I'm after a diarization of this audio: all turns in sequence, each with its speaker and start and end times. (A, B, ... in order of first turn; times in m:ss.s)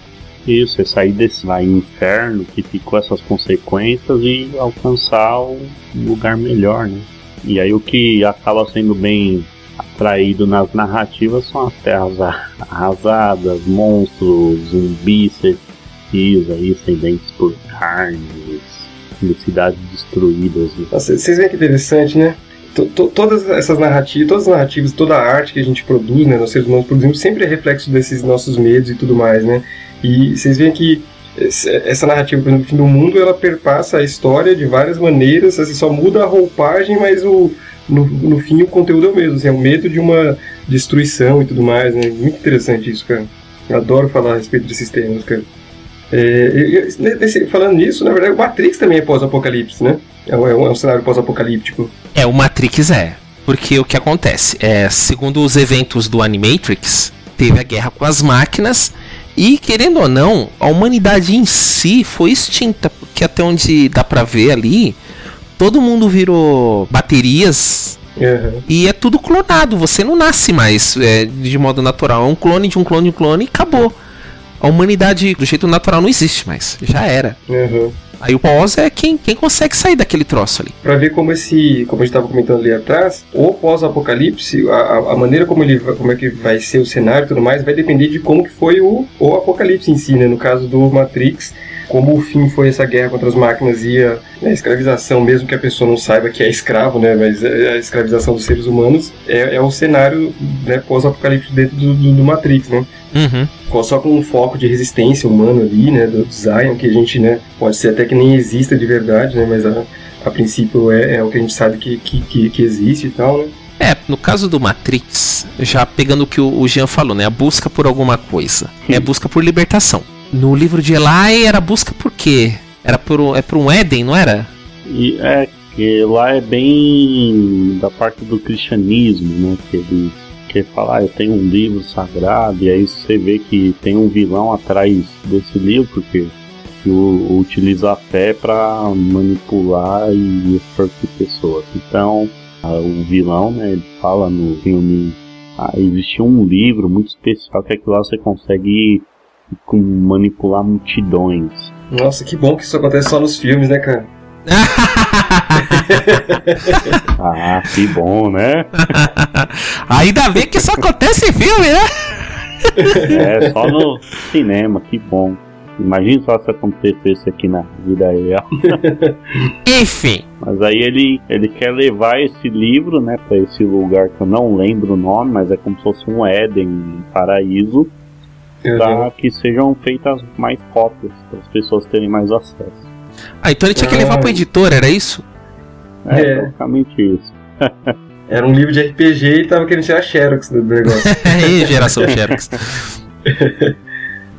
0:00.4-0:20.9 A
0:20.9-0:45.5 B
0:46.1-0:51.9 B
0:52.1-1:05.0 C
1:05.6-1:08.0 C
1:08.2-1:08.6 B
1:08.7-1:13.9 C
1:14.6-1:17.4 C
1:17.5-1:18.0 B
1:18.2-1:20.7 C
1:20.8-1:42.9 B
1:43.1-1:43.5 C
1:43.7-1:53.5 B
1:53.8-2:04.5 C
2:04.8-2:31.7 A
2:31.9-2:34.1 B
2:34.5-2:37.0 C
2:35.7-2:36.8 B
2:37.2-2:38.7 A
2:38.8-2:43.0 C
2:42.8-2:43.5 B
2:43.0-2:48.8 A
2:48.7-2:49.2 B
2:49.6-2:50.2 C
2:50.4-2:57.9 A
2:58.6-2:59.1 B
2:58.8-3:02.9 A
3:03.4-3:05.2 C
3:03.8-3:04.4 B
3:06.0-3:08.0 A
3:06.1-3:06.5 B
3:08.3-3:12.1 B
3:11.0-3:12.9 C
3:13.2-3:13.7 B